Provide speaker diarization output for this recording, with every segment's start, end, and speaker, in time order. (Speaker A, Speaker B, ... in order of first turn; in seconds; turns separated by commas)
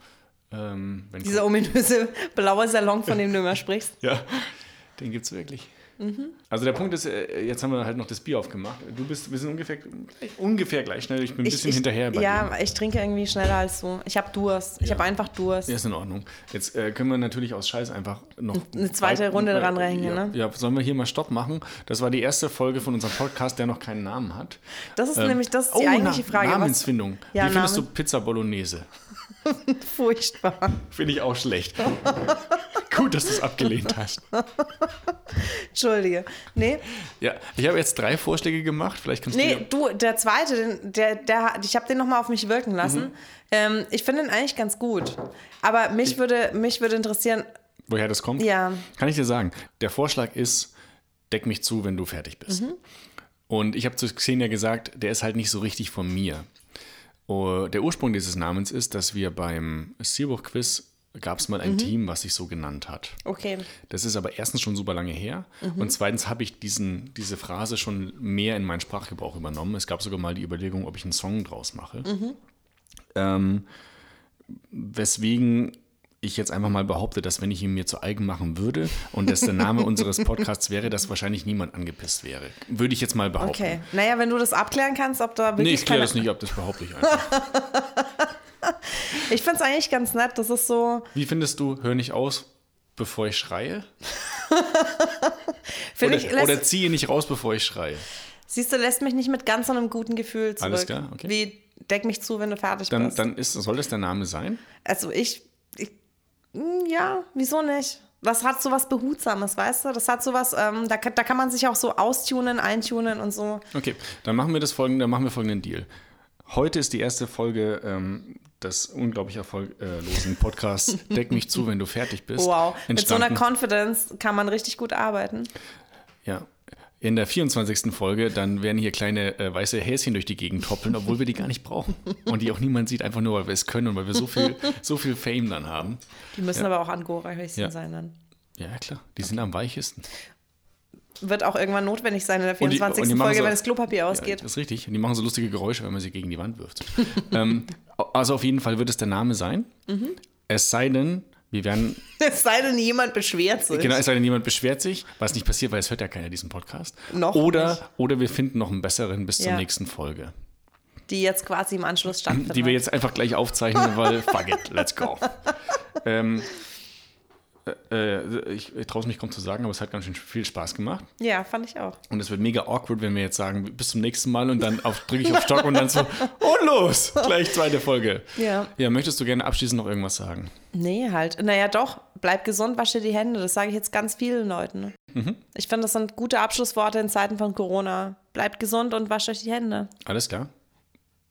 Speaker A: 0.5-1.5, Speaker B: 1.2-3.9, Speaker A: 4.0-5.7, Speaker B: 6.0-6.3, Speaker A: 6.5-12.5, Speaker B: 11.4-15.7, Speaker A: 15.7-24.6, Speaker B: 18.5-20.3, Speaker B: 24.9-27.9, Speaker A: 25.1-28.9, Speaker B: 29.4-30.8, Speaker A: 30.8-34.3, Speaker B: 32.1-32.3, Speaker B: 34.4-36.8, Speaker A: 37.2-39.6, Speaker B: 39.3-47.5, Speaker A: 42.8-43.1, Speaker A: 47.9-50.7, Speaker B: 48.4-48.9, Speaker A: 51.3-52.6, Speaker B: 52.5-52.8, Speaker A: 53.5-56.5, Speaker A: 57.3-63.2, Speaker B: 61.6-61.9, Speaker B: 63.2-63.7, Speaker A: 63.9-72.1, Speaker B: 65.6-65.9, Speaker B: 72.0-72.4, Speaker A: 73.1-73.7, Speaker A: 74.5-83.8, Speaker B: 83.4-86.2, Speaker A: 85.6-87.3, Speaker B: 87.0-91.1, Speaker A: 91.1-93.9, Speaker B: 94.2-96.6, Speaker A: 96.0-98.0, Speaker B: 98.5-103.2, Speaker A: 100.6-101.3, Speaker A: 102.9-104.6, Speaker B: 104.8-105.9, Speaker B: 106.5-113.6, Speaker A: 113.7-115.9, Speaker A: 116.4-123.4, Speaker B: 122.3-125.5, Speaker A: 126.2-136.0, Speaker B: 136.3-138.2, Speaker A: 138.6-140.1, Speaker B: 141.2-144.4, Speaker A: 142.6-149.7, Speaker B: 149.9-150.2, Speaker A: 150.5-152.0, Speaker B: 152.2-154.0, Speaker A: 153.7-160.3, Speaker B: 157.1-157.8, Speaker B: 159.4-159.6, Speaker B: 161.1-162.8, Speaker A: 162.3-165.4, Speaker A: 166.0-166.5, Speaker A: 167.6-171.1, Speaker B: 171.2-172.0, Speaker A: 172.1-180.5, Speaker B: 178.3-178.7, Speaker B: 180.7-184.9, Speaker A: 185.1-185.4, Speaker B: 185.5-189.9, Speaker A: 190.0-190.5